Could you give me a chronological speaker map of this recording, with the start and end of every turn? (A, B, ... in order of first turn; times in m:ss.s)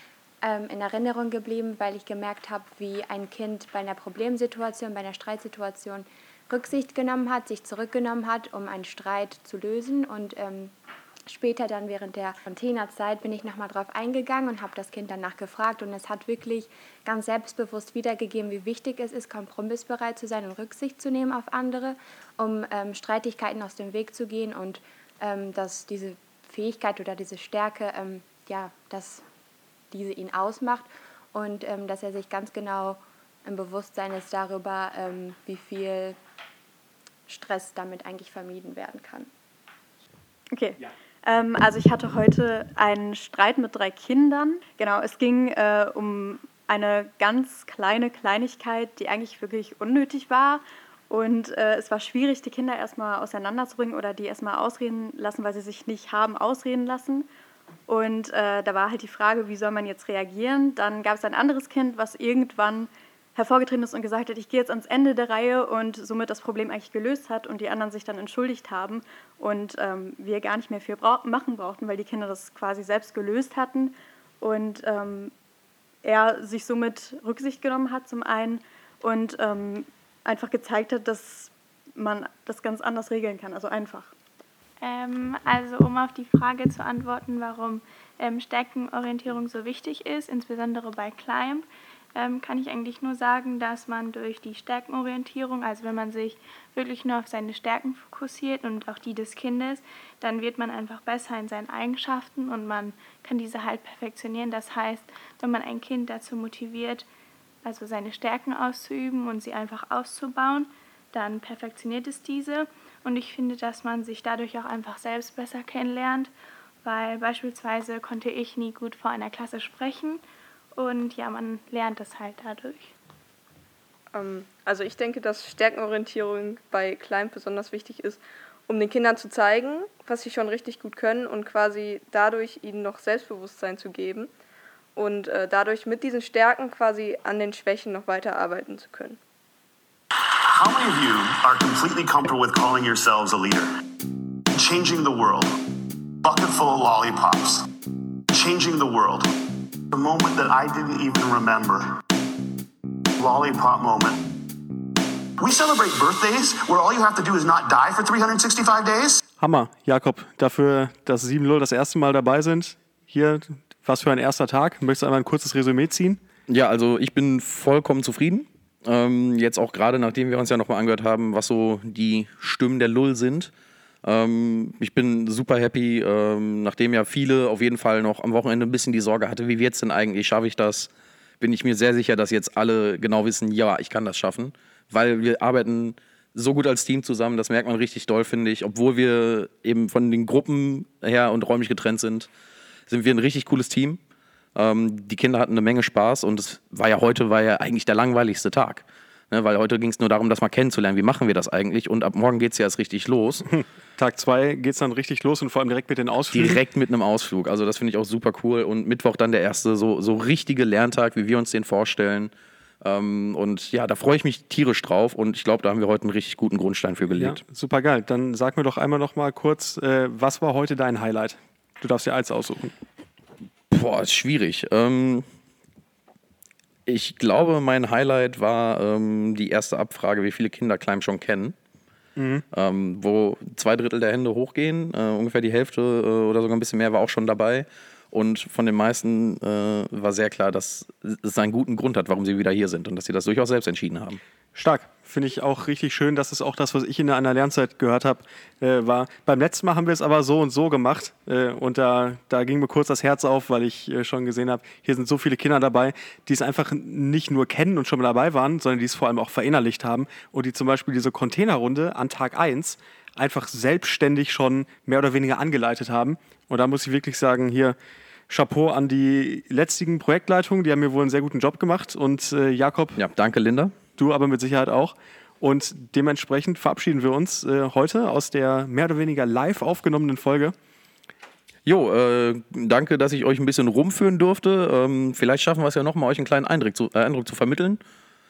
0:00.4-0:10.7 A
0:11.3-0:29.2 A
0:29.9-0:36.2 A
0:37.3-0:39.3 A
0:40.5-0:57.3 B
0:57.9-1:15.3 B
1:16.0-1:24.1 B
1:24.8-1:47.1 C
1:47.6-1:56.3 C
1:56.8-2:00.2 C
2:00.8-2:02.9 C
2:04.1-2:14.3 D
2:15.0-2:19.2 D
2:20.4-2:23.7 E
2:24.5-2:25.6 E
2:26.2-2:27.7 E
2:28.3-2:29.3 E
2:29.9-2:32.0 E
2:33.2-2:34.2 E
2:35.4-2:39.2 E
2:39.4-2:46.2 F
2:46.5-2:53.5 G
2:54.0-3:12.3 G
3:12.9-3:14.0 G
3:14.6-3:23.5 G
3:24.0-3:26.6 F
3:26.3-3:37.4 G
3:37.1-3:42.7 F
3:43.7-3:45.3 G
3:46.9-3:51.6 G
3:52.2-3:52.4 F
3:52.5-4:04.2 G
4:04.6-4:27.8 F
4:28.3-4:33.0 F
4:33.0-4:33.8 G
4:34.0-4:40.6 F
4:41.6-4:47.8 G